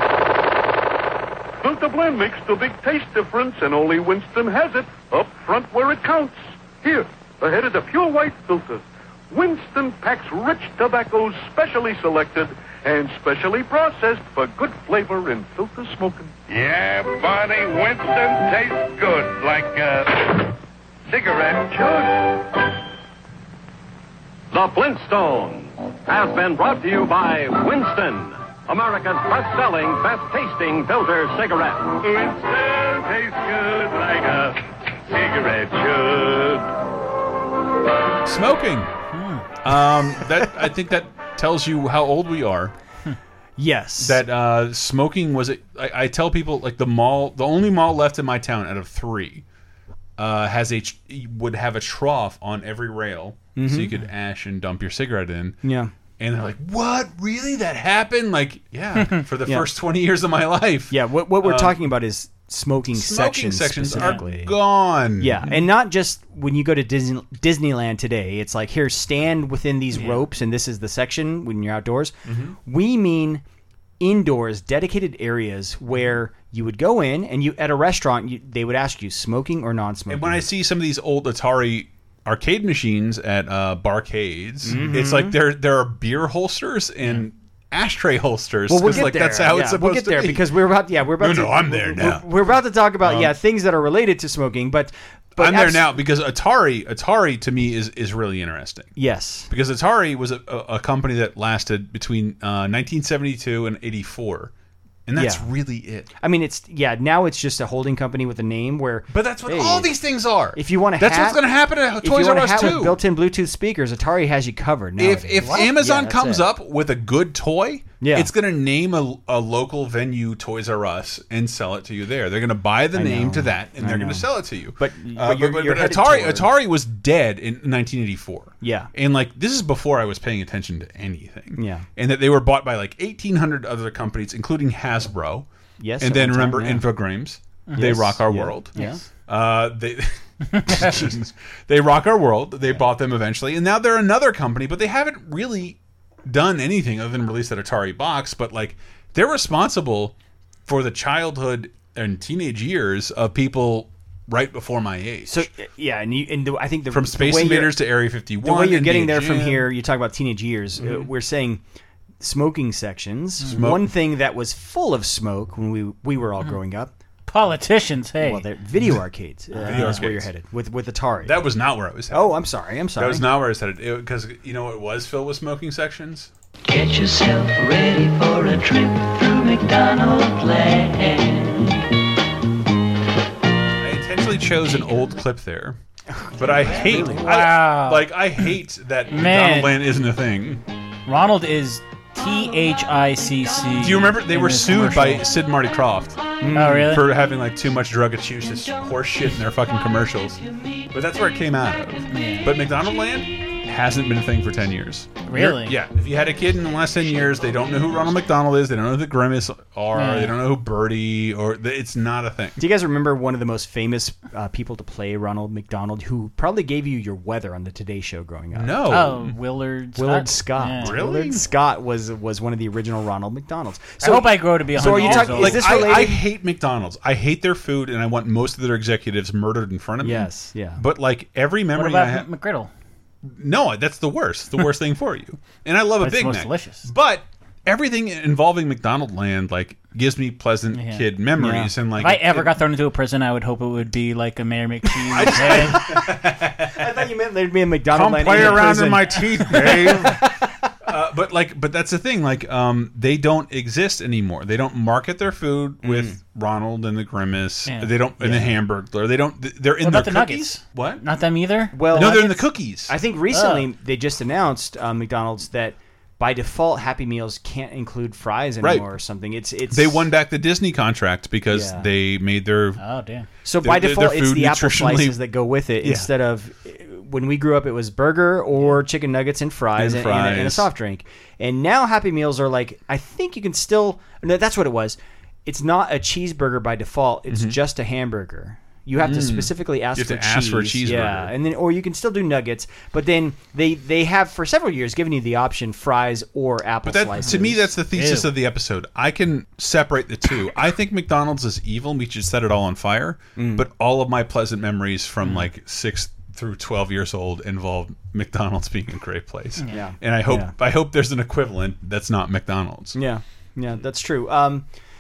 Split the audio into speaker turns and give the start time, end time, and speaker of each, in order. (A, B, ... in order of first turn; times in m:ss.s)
0:01.6-0:16.3 A
0:16.5-0:20.5 B
0:21.1-0:22.0 B
0:24.5-0:32.9 C
0:32.1-0:33.5 B
0:33.6-0:34.5 C
0:35.1-0:36.6 C
0:38.2-0:38.9 D
0:39.1-0:39.5 E
0:39.6-0:42.7 D
0:43.6-0:44.2 F
0:44.0-0:49.4 D
0:50.2-0:55.6 D
0:53.6-0:53.9 F
0:55.6-0:55.9 F
0:56.2-1:01.8 D
1:00.9-1:04.5 F
1:02.9-1:05.4 D
1:05.2-1:13.4 F
1:09.9-1:10.2 E
1:12.3-1:12.6 D
1:14.0-1:20.4 F
1:20.1-1:30.4 D
1:24.6-1:25.4 F
1:28.7-1:35.9 F
1:31.2-1:32.3 D
1:33.0-1:33.3 D
1:35.4-1:38.9 D
1:39.0-1:39.5 F
1:39.5-1:44.5 D
1:45.1-1:46.1 D
1:45.2-1:45.5 F
1:46.2-1:49.9 F
1:49.1-1:53.0 D
1:50.5-1:51.4 F
1:52.0-1:56.5 F
1:55.0-2:15.5 D
1:58.0-1:58.3 F
2:02.9-2:06.5 F
2:08.6-2:08.9 F
2:11.6-2:11.9 F
2:15.8-2:16.8 F
2:16.0-2:18.7 D
2:17.8-2:19.0 F
2:18.8-2:19.0 E
2:19.3-2:30.1 D
2:20.6-2:20.9 E
2:30.7-2:35.5 D
2:35.3-2:37.7 F
2:36.9-2:39.7 D
2:38.4-2:41.6 F
2:40.8-2:41.1 D
2:42.2-2:46.9 F
2:43.5-2:43.9 D
2:47.3-2:48.4 E
2:48.2-2:51.4 F
2:49.6-2:50.0 E
2:49.6-2:50.3 D
2:51.2-2:52.3 D
2:52.1-2:53.2 F
2:53.0-2:56.3 D
2:56.6-3:01.8 G
3:03.8-3:05.8 D
3:06.1-3:07.3 F
3:06.4-3:10.6 D
3:07.2-3:08.1 E
3:09.1-3:09.8 E
3:11.1-3:15.3 E
3:13.8-3:32.6 D
3:16.4-3:17.0 F
3:16.5-3:17.1 E
3:22.1-3:22.5 E
3:25.3-3:25.8 E
3:30.0-3:30.4 E
3:32.6-3:38.8 F
3:38.5-3:39.4 D
3:38.9-3:41.0 E
3:40.0-3:46.2 F
3:40.8-3:41.5 D
3:44.0-3:46.1 E
3:44.8-3:52.3 D
3:50.0-3:50.8 F
3:51.8-3:52.7 E
3:53.2-4:02.5 D
3:56.0-3:56.9 E
4:00.7-4:01.0 E
4:01.4-4:01.7 F
4:02.0-4:05.8 E
4:05.1-4:06.9 D
4:05.2-4:06.1 F
4:06.6-4:10.6 F
4:07.9-4:10.3 D
4:10.9-4:21.0 D
4:15.8-4:16.2 F
4:18.2-4:18.5 F
4:19.8-4:22.2 E
4:21.7-4:30.1 F
4:21.9-4:22.9 D
4:23.3-4:23.7 E
4:28.6-4:28.9 D
4:29.7-4:32.8 D
4:31.5-4:31.9 F
4:32.8-4:33.3 E
4:33.4-4:57.7 F
4:33.6-4:35.2 D
4:35.8-4:36.1 D
4:39.8-4:40.7 D
4:47.3-4:47.6 D
4:49.0-4:51.3 D
4:56.8-5:13.0 D
4:57.9-4:58.3 E
5:03.4-5:03.6 F
5:09.6-5:09.8 E
5:09.7-5:10.5 F
5:13.0-5:14.7 F